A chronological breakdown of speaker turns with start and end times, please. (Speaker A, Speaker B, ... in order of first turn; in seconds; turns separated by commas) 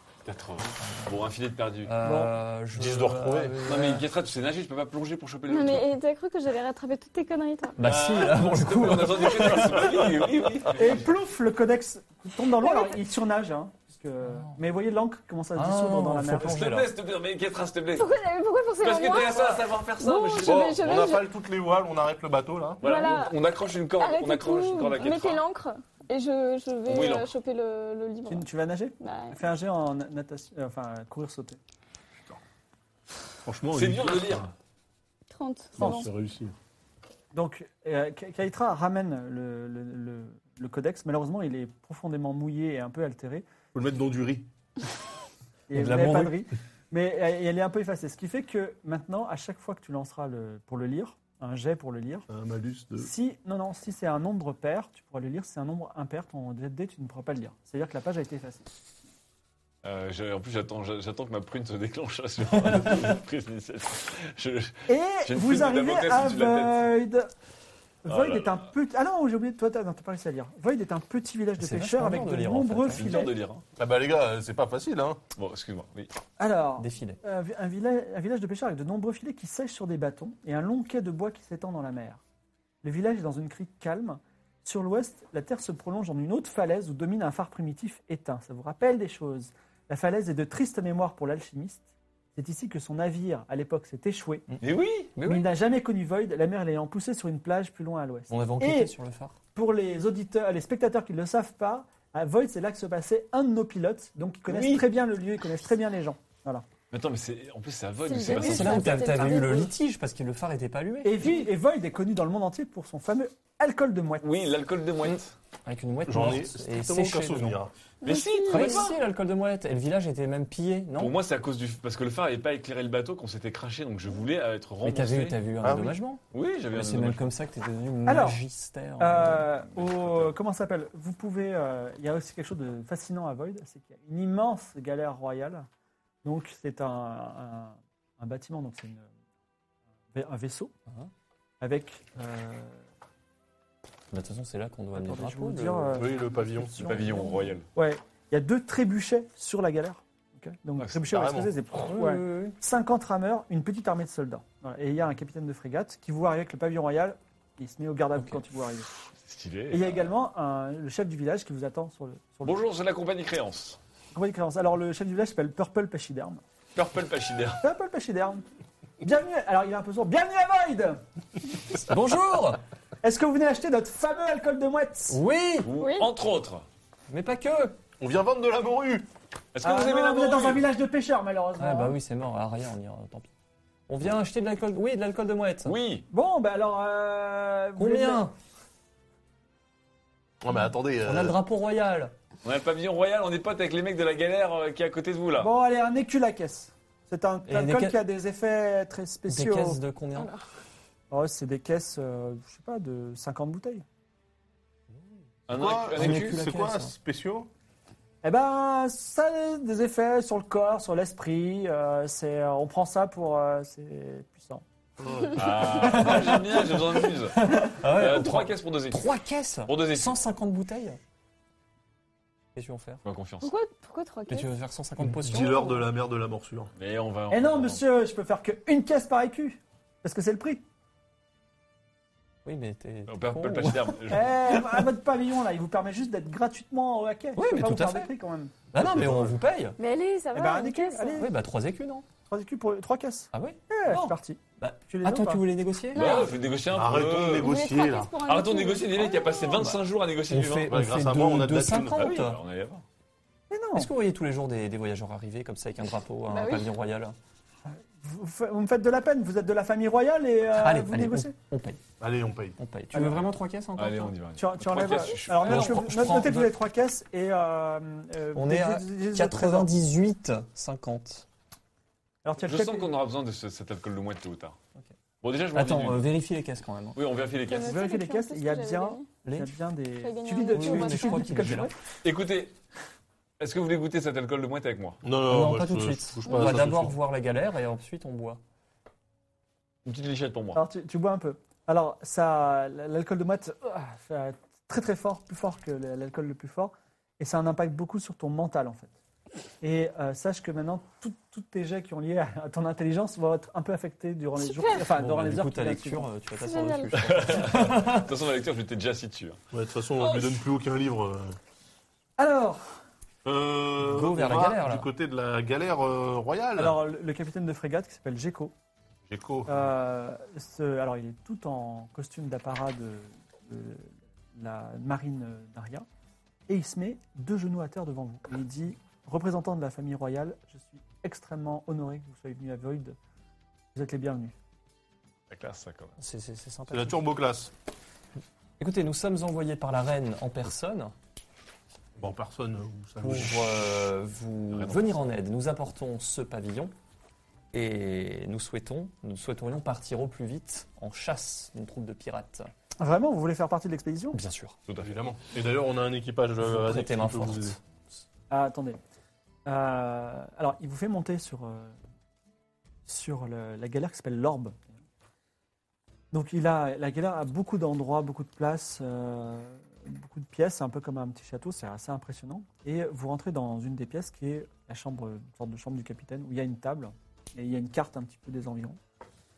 Speaker A: 0.2-1.9, Speaker B: 0.8-1.1, Speaker B: 1.8-4.0, Speaker C: 2.0-2.3, Speaker D: 2.7-3.6, Speaker A: 3.6-5.9, Speaker E: 5.5-7.8, Speaker B: 7.8-10.1, Speaker A: 7.8-11.1, Speaker C: 10.7-16.5, Speaker E: 12.6-12.9, Speaker B: 14.2-14.6, Speaker B: 15.5-16.9, Speaker A: 16.4-18.1, Speaker E: 18.0-21.3, Speaker A: 18.8-20.8, Speaker D: 20.4-22.8, Speaker E: 22.8-23.4, Speaker A: 22.8-25.4, Speaker E: 24.0-28.4, Speaker A: 26.9-27.3, Speaker C: 28.3-31.6, Speaker E: 29.0-29.4, Speaker D: 33.4-34.5, Speaker A: 33.7-34.5, Speaker E: 35.3-36.1, Speaker D: 35.8-36.5, Speaker C: 35.8-36.1, Speaker C: 37.3-43.5, Speaker D: 43.7-44.5, Speaker C: 45.7-52.2, Speaker B: 45.7-46.4, Speaker D: 52.3-53.1, Speaker C: 53.0-58.7, Speaker A: 59.8-66.9, Speaker B: 62.7-63.0, Speaker C: 64.9-67.3, Speaker C: 68.0-73.3, Speaker A: 68.1-68.6, Speaker B: 71.6-73.1, Speaker A: 72.9-73.6, Speaker D: 73.8-75.2, Speaker A: 75.3-76.1, Speaker C: 76.4-82.2, Speaker B: 76.8-77.2, Speaker C: 82.8-94.5, Speaker A: 94.6-95.1, Speaker B: 95.1-95.4, Speaker C: 95.2-98.9, Speaker B: 98.3-99.4, Speaker C: 99.5-106.7, Speaker A: 104.5-104.8, Speaker A: 106.9-109.1, Speaker E: 108.0-109.7, Speaker B: 108.3-111.2, Speaker C: 111.0-114.4, Speaker A: 114.2-115.3, Speaker B: 115.0-117.6, Speaker D: 116.1-117.7, Speaker E: 118.0-118.9, Speaker A: 118.0-118.9, Speaker B: 118.5-121.1, Speaker A: 121.0-125.4, Speaker B: 124.8-126.2, Speaker D: 125.6-126.0, Speaker A: 126.3-127.3, Speaker B: 126.7-129.5, Speaker C: 128.1-128.4, Speaker C: 129.0-135.7, Speaker A: 129.8-130.3, Speaker C: 136.2-139.1, Speaker C: 140.1-140.7, Speaker C: 141.6-142.8, Speaker B: 144.1-146.0, Speaker C: 144.9-158.9, Speaker D: 145.9-147.1, Speaker A: 146.8-147.7, Speaker A: 150.8-151.1, Speaker D: 151.1-151.5, Speaker B: 151.7-152.6, Speaker A: 159.2-160.0, Speaker C: 159.7-162.6, Speaker A: 162.4-163.8, Speaker C: 164.1-166.4, Speaker A: 166.7-167.6, Speaker C: 167.6-168.4, Speaker C: 169.0-171.0, Speaker B: 171.7-172.6, Speaker C: 173.0-175.2, Speaker B: 175.1-175.7, Speaker A: 175.6-176.6, Speaker E: 175.8-176.1, Speaker B: 177.1-177.8, Speaker D: 178.0-179.1, Speaker A: 179.5-180.6, Speaker C: 179.6-181.9, Speaker B: 181.6-183.3, Speaker B: 183.9-185.7, Speaker A: 185.6-186.1, Speaker C: 186.1-188.2, Speaker B: 187.8-188.3, Speaker D: 190.4-191.4, Speaker B: 191.0-192.1, Speaker A: 192.4-195.5, Speaker C: 195.4-199.8, Speaker B: 197.5-198.0, Speaker B: 199.3-200.3, Speaker C: 201.1-203.8, Speaker A: 205.5-206.4, Speaker D: 205.5-207.5, Speaker B: 205.9-206.9, Speaker C: 208.2-214.6, Speaker D: 215.0-215.4, Speaker A: 215.3-219.1, Speaker B: 215.8-216.6, Speaker B: 217.3-221.0, Speaker A: 219.7-220.2, Speaker B: 222.5-223.0, Speaker A: 223.0-223.5, Speaker E: 223.4-224.5, Speaker B: 224.3-225.8, Speaker D: 225.0-226.7, Speaker A: 226.8-227.8, Speaker C: 227.3-230.6, Speaker B: 232.4-234.1, Speaker A: 233.1-234.3, Speaker C: 234.1-238.6, Speaker B: 237.3-238.1, Speaker B: 238.7-239.8, Speaker D: 238.7-239.4, Speaker E: 239.8-241.2, Speaker C: 240.3-241.3, Speaker B: 241.2-242.0, Speaker C: 242.3-245.4, Speaker B: 243.3-246.2, Speaker E: 245.9-246.3, Speaker A: 245.9-247.5, Speaker D: 246.7-248.1, Speaker E: 247.4-249.7, Speaker A: 248.2-250.7, Speaker B: 249.6-252.4, Speaker D: 250.7-252.1, Speaker A: 251.9-252.8, Speaker C: 253.5-253.9, Speaker B: 253.8-257.1, Speaker E: 256.3-256.7, Speaker C: 257.6-261.3, Speaker B: 260.6-261.8, Speaker D: 262.0-262.6, Speaker B: 262.6-264.1, Speaker C: 262.9-263.2, Speaker A: 263.8-266.0, Speaker C: 264.4-269.7, Speaker B: 265.4-266.5, Speaker B: 268.3-271.2, Speaker C: 272.2-272.9, Speaker A: 272.4-274.6, Speaker A: 275.2-276.1, Speaker B: 275.5-277.0, Speaker A: 276.9-277.8, Speaker E: 277.4-279.1, Speaker C: 277.6-281.8, Speaker B: 279.2-279.5, Speaker E: 280.0-281.3, Speaker B: 280.5-281.7, Speaker A: 282.0-282.5, Speaker A: 283.4-285.0, Speaker D: 285.0-286.9, Speaker B: 285.3-288.4, Speaker A: 289.8-290.6, Speaker C: 290.5-298.9, Speaker C: 299.6-306.1, Speaker E: 304.4-304.8, Speaker B: 304.9-308.1, Speaker E: 306.4-307.0, Speaker A: 306.9-309.4, Speaker D: 309.5-311.4, Speaker A: 310.0-310.3, Speaker C: 312.2-312.8, Speaker D: 313.2-316.8, Speaker B: 313.8-314.9, Speaker C: 316.6-318.5, Speaker D: 319.1-319.7, Speaker C: 319.5-325.9, Speaker C: 326.5-333.0, Speaker C: 333.7-334.3, Speaker A: 335.3-335.9, Speaker B: 336.0-337.0, Speaker D: 336.7-337.5, Speaker B: 338.6-340.9, Speaker D: 342.0-343.6, Speaker B: 343.0-346.7, Speaker A: 344.5-344.9, Speaker B: 347.5-352.5, Speaker C: 352.8-354.2, Speaker B: 354.1-354.6, Speaker A: 354.7-355.0, Speaker D: 354.8-357.6, Speaker B: 356.4-357.6, Speaker C: 358.3-358.8, Speaker C: 359.4-361.8, Speaker C: 362.9-364.7, Speaker C: 366.1-378.8